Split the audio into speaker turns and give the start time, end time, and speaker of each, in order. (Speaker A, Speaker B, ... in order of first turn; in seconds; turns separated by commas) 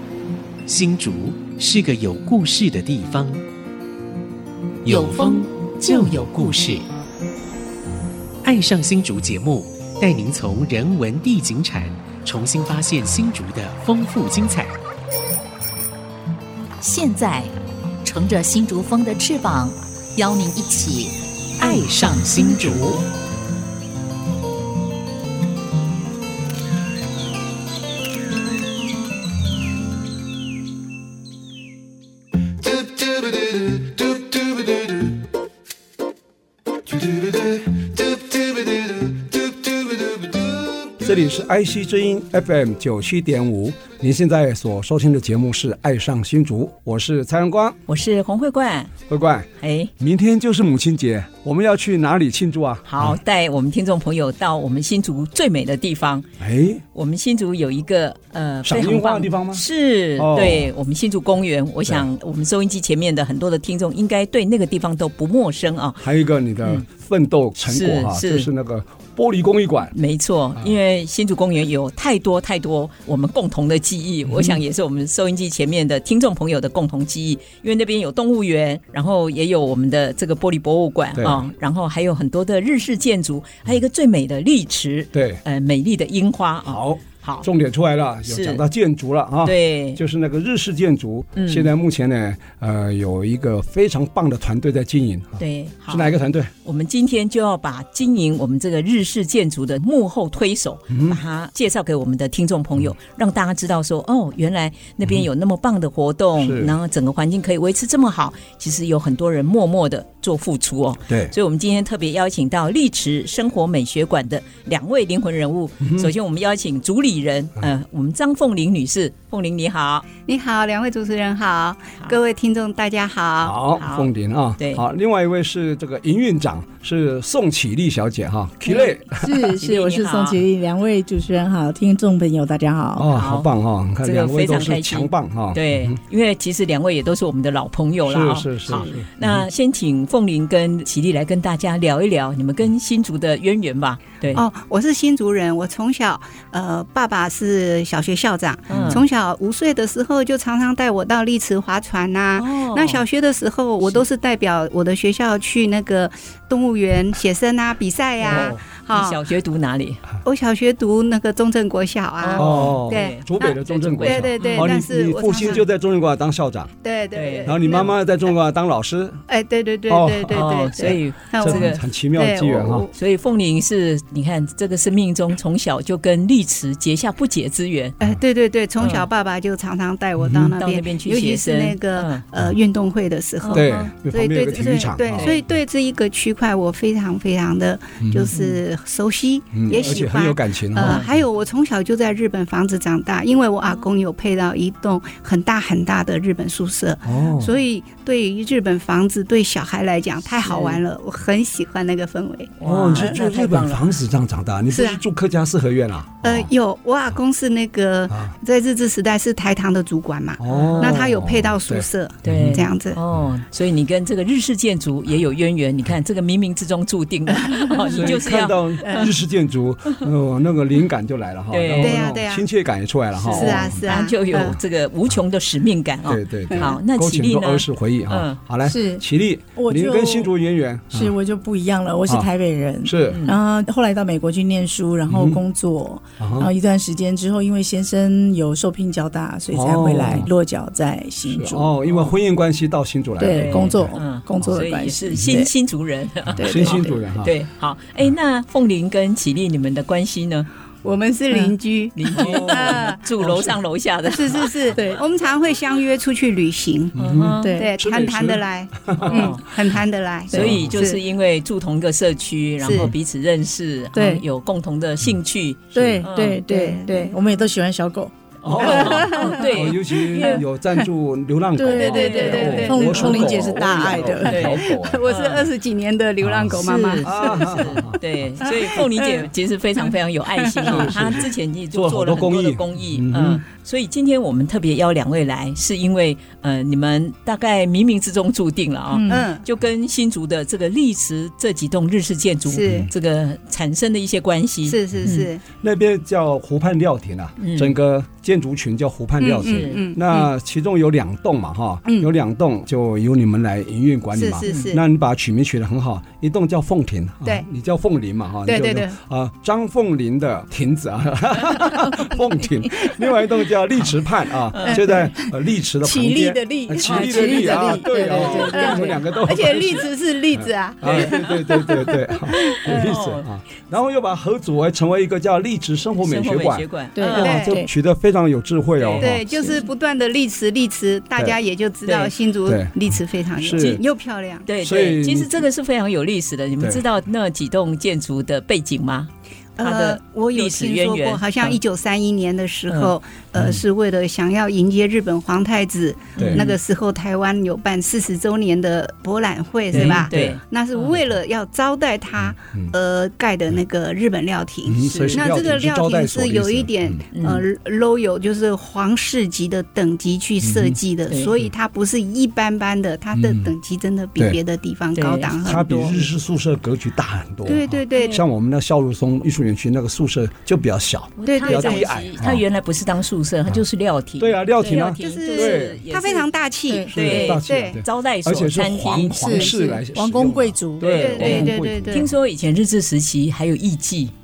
Speaker A: 0.7-3.4, Speaker A: 4.8-6.9, Speaker B: 4.9-6.8, Speaker A: 8.4-14.7, Speaker B: 16.8-23.0, Speaker A: 21.6-23.0, Speaker C: 41.0-47.8, Speaker D: 47.9-48.9, Speaker C: 49.1-53.2, Speaker D: 49.6-49.9, Speaker D: 52.9-56.3, Speaker C: 56.4-56.8, Speaker D: 56.9-66.0, Speaker C: 58.6-59.6, Speaker C: 60.2-60.7, Speaker C: 66.0-69.9, Speaker D: 67.6-68.5, Speaker D: 69.9-87.5, Speaker C: 74.3-74.6, Speaker C: 81.2-81.4, Speaker C: 85.1-85.4, Speaker C: 86.7-96.5, Speaker D: 88.3-88.6, Speaker D: 89.4-90.0, Speaker D: 91.3-91.7, Speaker D: 95.4-120.1, Speaker C: 100.9-101.2, Speaker C: 106.4-106.8, Speaker C: 111.1-111.3, Speaker C: 115.8-116.1, Speaker E: 120.2-123.6, Speaker C: 123.4-129.5, Speaker D: 123.8-124.8, Speaker F: 129.2-133.1, Speaker D: 129.5-130.4, Speaker C: 132.9-136.0, Speaker D: 133.1-133.5, Speaker D: 134.0-144.4, Speaker C: 138.1-139.4, Speaker E: 144.3-159.2, Speaker D: 148.7-149.0, Speaker C: 148.7-149.0, Speaker D: 152.4-153.0, Speaker D: 158.2-160.0, Speaker C: 158.2-158.6, Speaker E: 160.2-165.6, Speaker D: 162.2-164.7, Speaker C: 162.3-166.7, Speaker E: 166.8-168.0, Speaker D: 167.1-167.8, Speaker C: 167.4-169.2, Speaker E: 169.3-172.9, Speaker C: 169.9-172.9, Speaker D: 170.3-171.8, Speaker D: 172.9-177.9, Speaker E: 178.0-203.1, Speaker D: 178.8-179.1, Speaker C: 180.2-180.5, Speaker D: 180.5-182.2, Speaker D: 183.4-183.7, Speaker C: 183.5-185.3, Speaker D: 185.1-185.4, Speaker C: 188.0-188.3, Speaker D: 188.3-188.6, Speaker C: 189.5-191.1, Speaker D: 190.8-191.1, Speaker C: 197.0-197.6, Speaker D: 200.4-200.8, Speaker D: 202.6-203.9, Speaker C: 202.6-206.5, Speaker E: 204.7-205.0, Speaker E: 206.2-213.0, Speaker C: 208.1-208.3, Speaker C: 210.4-213.3, Speaker D: 210.5-211.0, Speaker D: 212.2-219.1, Speaker C: 217.9-224.6, Speaker D: 221.5-222.1, Speaker E: 221.8-222.5, Speaker D: 223.2-228.4, Speaker E: 223.2-224.6, Speaker C: 226.0-231.2, Speaker F: 228.6-229.0, Speaker F: 229.6-230.3, Speaker F: 230.9-241.7, Speaker C: 232.8-233.2, Speaker D: 233.1-233.4, Speaker C: 235.1-235.4, Speaker C: 236.2-236.5, Speaker C: 239.5-240.3, Speaker C: 241.2-244.6, Speaker F: 243.2-245.5, Speaker D: 243.3-250.5, Speaker C: 246.3-247.3, Speaker F: 246.4-247.0, Speaker E: 250.8-253.0, Speaker D: 251.9-254.9, Speaker C: 252.2-253.5, Speaker E: 254.1-256.9, Speaker C: 256.9-259.3, Speaker D: 256.9-257.6, Speaker F: 257.4-257.7, Speaker E: 257.5-261.0, Speaker D: 259.0-259.4, Speaker D: 260.3-266.4, Speaker C: 260.3-260.7, Speaker E: 262.6-262.9, Speaker F: 263.9-264.2, Speaker C: 265.7-266.0, Speaker F: 265.7-268.1, Speaker E: 266.5-267.1, Speaker D: 268.4-270.4, Speaker C: 268.4-275.3, Speaker F: 268.7-269.4, Speaker E: 268.8-269.3, Speaker F: 271.5-274.4, Speaker E: 271.7-277.5, Speaker D: 271.8-273.4, Speaker D: 274.2-275.5, Speaker C: 276.2-278.0, Speaker D: 276.5-295.3, Speaker E: 278.7-279.1, Speaker E: 280.5-280.9, Speaker C: 280.6-283.4, Speaker F: 288.9-289.2, Speaker E: 289.1-289.4, Speaker E: 292.4-292.9, Speaker C: 292.6-292.9, Speaker E: 294.6-295.4, Speaker C: 294.9-329.2, Speaker D: 297.4-297.7, Speaker E: 299.2-300.3, Speaker D: 299.4-299.8, Speaker E: 304.1-304.8, Speaker D: 304.4-304.8, Speaker E: 308.5-308.9, Speaker D: 314.5-314.8, Speaker F: 315.9-319.0, Speaker E: 316.5-321.2, Speaker D: 317.1-318.9, Speaker D: 320.9-321.3, Speaker D: 322.4-323.3, Speaker D: 326.0-327.4, Speaker F: 326.9-327.7, Speaker E: 327.1-327.6, Speaker D: 328.8-329.1, Speaker E: 329.0-334.5, Speaker F: 329.3-329.6, Speaker D: 331.8-332.1, Speaker C: 332.4-332.7, Speaker C: 333.4-333.8, Speaker D: 334.4-341.6, Speaker C: 334.6-335.4, Speaker E: 339.6-366.0, Speaker C: 343.3-343.6, Speaker D: 346.1-346.6, Speaker C: 346.2-346.4, Speaker C: 349.7-350.4, Speaker D: 349.7-351.0, Speaker C: 352.2-352.7, Speaker C: 354.7-357.0, Speaker D: 354.8-355.3, Speaker D: 357.1-357.4, Speaker C: 360.4-360.8, Speaker C: 363.1-363.5, Speaker D: 364.9-365.4, Speaker C: 365.4-372.4, Speaker E: 367.4-368.2, Speaker D: 367.9-368.2, Speaker D: 371.2-376.3, Speaker E: 371.2-371.9, Speaker C: 374.2-375.8, Speaker E: 375.0-377.8, Speaker F: 376.7-377.3, Speaker D: 376.9-379.8, Speaker C: 376.9-382.1, Speaker F: 379.2-381.5, Speaker E: 380.8-382.1, Speaker D: 381.0-384.1